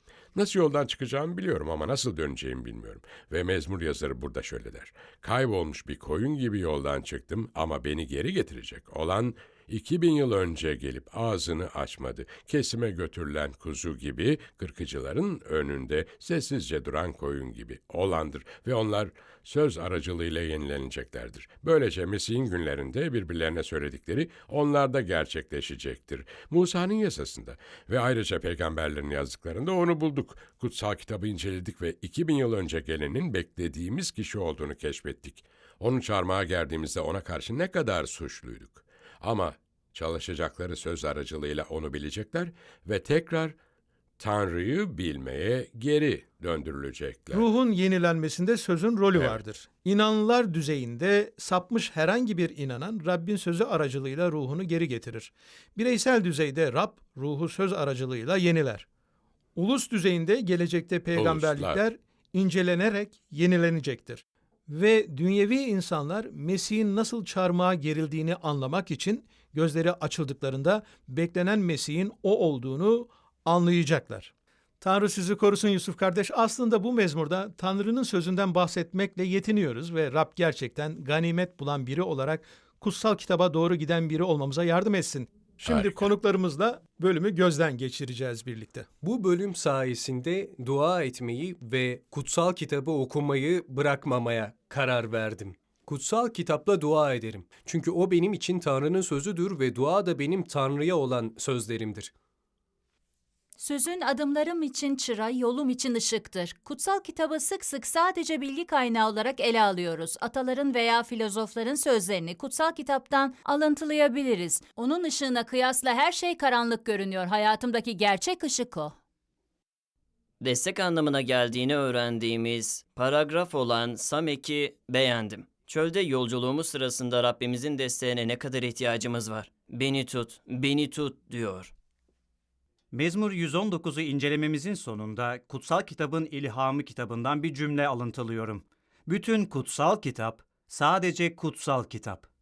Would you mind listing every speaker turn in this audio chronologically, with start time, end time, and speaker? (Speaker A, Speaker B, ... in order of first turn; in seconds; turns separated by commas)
Speaker A: 0.3-43.6, Speaker A: 44.2-47.5, Speaker B: 47.3-58.9, Speaker B: 59.6-88.9, Speaker A: 61.2-61.8, Speaker A: 85.6-86.1, Speaker C: 89.0-102.1, Speaker D: 103.6-119.0, Speaker E: 120.4-131.7, Speaker F: 132.9-142.3